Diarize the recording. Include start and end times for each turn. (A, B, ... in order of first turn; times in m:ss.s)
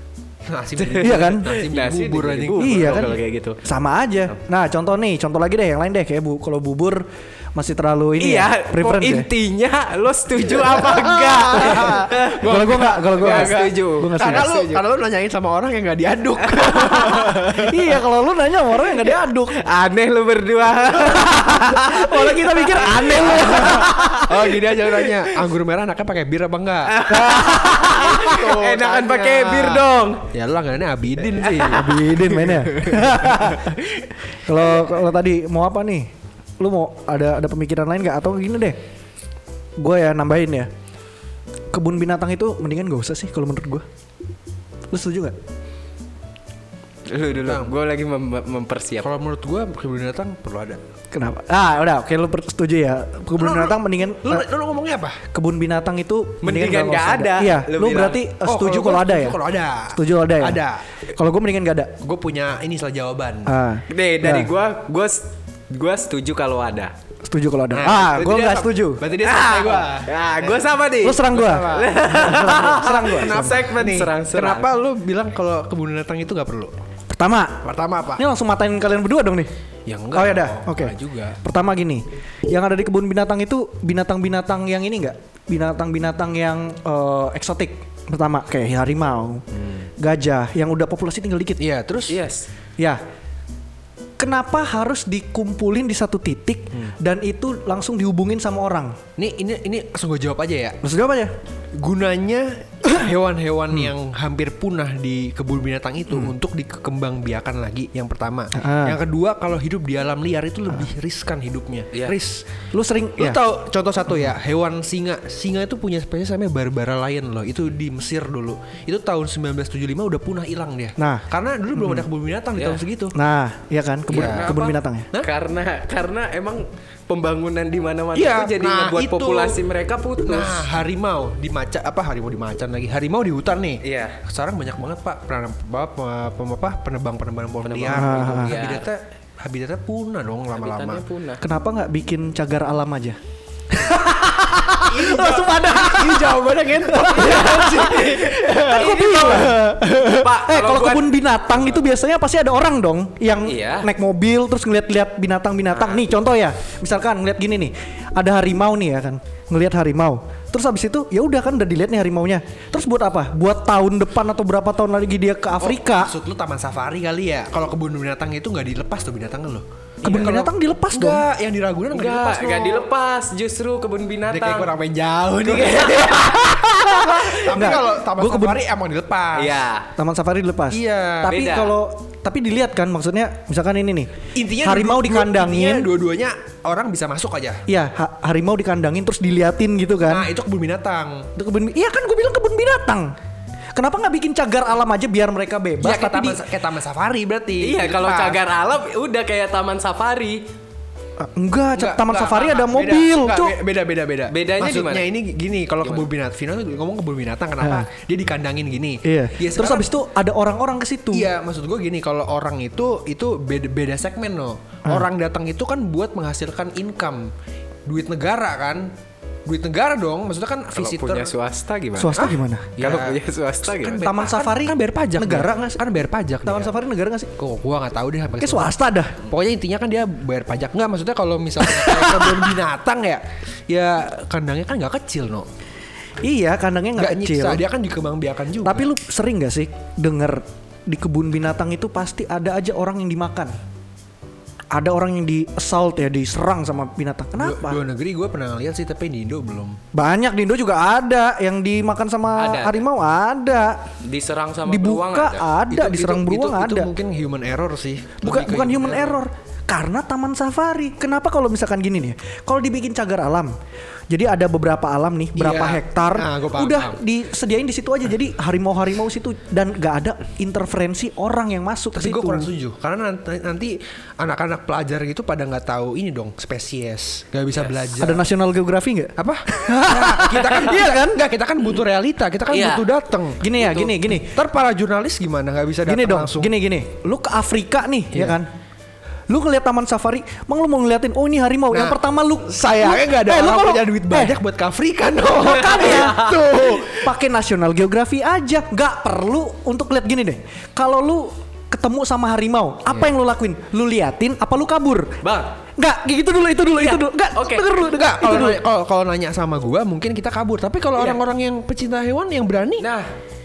0:00.5-0:03.2 A
0:00.8-0:03.6 B
0:01.0-0:01.5 C
0:02.6-0:09.3 C
0:08.2-0:14.8 B
0:10.6-0:17.9 A
0:11.6-0:14.5 C
0:16.5-0:17.6 B
0:17.6-0:19.6 C
0:19.1-0:25.3 B
0:21.0-0:24.3 C
0:23.1-0:33.6 A
0:26.9-0:30.2 B
0:27.1-0:27.6 C
0:31.4-0:31.8 B
0:31.7-0:33.8 C
0:34.4-0:38.8 C
0:39.8-0:40.7 C
0:41.7-0:43.8 C
0:44.9-0:45.4 C
0:47.1-0:49.1 B
0:47.4-0:47.7 A
0:49.0-0:50.8 A
0:51.1-0:54.5 C
0:53.4-0:55.2 A
0:55.3-0:59.4 C
0:56.4-0:58.2 B
0:58.4-1:00.8 A
0:59.9-1:00.6 C
1:01.2-1:02.0 C
1:02.0-1:03.6 A
1:03.5-1:04.5 C
1:03.9-1:06.9 B
1:07.2-1:09.0 C
1:07.7-1:10.7 A
1:09.2-1:14.7 B
1:11.0-1:13.6 C
1:11.2-1:11.9 A
1:12.8-1:16.7 A
1:17.1-1:19.5 C
1:17.6-1:18.2 A
1:19.9-1:21.4 A
1:20.1-1:29.4 C
1:29.6-1:29.9 A
1:30.0-1:31.6 C
1:31.6-1:32.2 A
1:32.1-1:32.5 B
1:34.2-1:39.0 C
1:39.2-1:40.8 A
1:40.8-1:41.3 C
1:41.8-1:52.5 A
1:48.6-1:49.0 C
1:52.7-1:53.4 C
1:53.2-2:03.2 A
2:01.0-2:01.2 C
2:01.8-2:02.1 C
2:02.6-2:02.8 B
2:03.1-2:05.1 C
2:04.1-2:05.3 A
2:04.1-2:10.7 B
2:08.2-2:09.6 A
2:10.3-2:21.0 A
2:13.8-2:14.2 B
2:17.6-2:18.9 B
2:17.9-2:18.6 C
2:20.6-2:21.4 B
2:21.4-2:23.2 C
2:23.7-2:46.1 C
2:24.9-2:30.2 A
2:26.9-2:31.2 B
2:33.4-2:33.9 B
2:35.8-2:36.0 B
2:45.6-2:52.9 A
2:50.0-2:51.2 C
2:51.9-2:54.7 B
2:54.3-2:59.6 A
2:55.4-2:57.5 B
2:57.5-2:58.6 C
2:59.4-2:59.9 B
3:00.0-3:05.9 C
3:00.7-3:01.4 A
3:01.3-3:01.8 B
3:04.4-3:07.6 A
3:07.7-3:10.3 C
3:10.1-3:11.3 A
3:11.4-3:13.1 C
3:13.8-3:16.4 C
3:15.8-3:18.4 A
3:17.6-3:20.4 B
3:21.2-3:23.6 C
3:21.8-3:29.9 A
3:24.3-3:25.1 B
3:27.6-3:27.9 C
3:29.0-3:31.3 C
3:31.1-3:37.3 A
3:37.9-3:38.9 A
3:39.5-3:41.3 A
3:40.7-3:44.1 B
3:42.0-3:42.8 C
3:42.2-3:46.7 A
3:44.0-3:45.8 C
3:46.4-3:47.3 C
3:47.4-3:55.5 A
3:48.4-3:49.2 C
3:51.6-3:52.6 C
3:56.2-3:57.6 C
3:57.0-3:58.9 A
3:58.6-4:03.6 C
4:04.7-4:07.8 C
4:07.4-4:09.8 A
4:09.9-4:13.9 C
4:12.4-4:12.8 B
4:14.0-4:15.5 B
4:14.7-4:16.9 C
4:15.7-4:19.2 A
4:18.2-4:23.5 C
4:24.1-4:32.5 C
4:25.4-4:27.0 A
4:32.0-4:38.3 A
4:38.0-4:41.3 C
4:39.2-4:46.5 A
4:42.5-4:42.9 B
4:43.4-4:44.4 C
4:45.9-4:48.5 C
4:48.1-4:48.4 A
4:49.3-4:54.4 C
4:51.7-4:57.1 A
4:55.3-5:05.2 C
4:55.6-4:56.3 B
5:05.2-5:05.5 B
5:05.8-5:08.6 C
5:06.8-5:07.7 B
5:07.8-5:12.8 A
5:12.8-5:13.1 B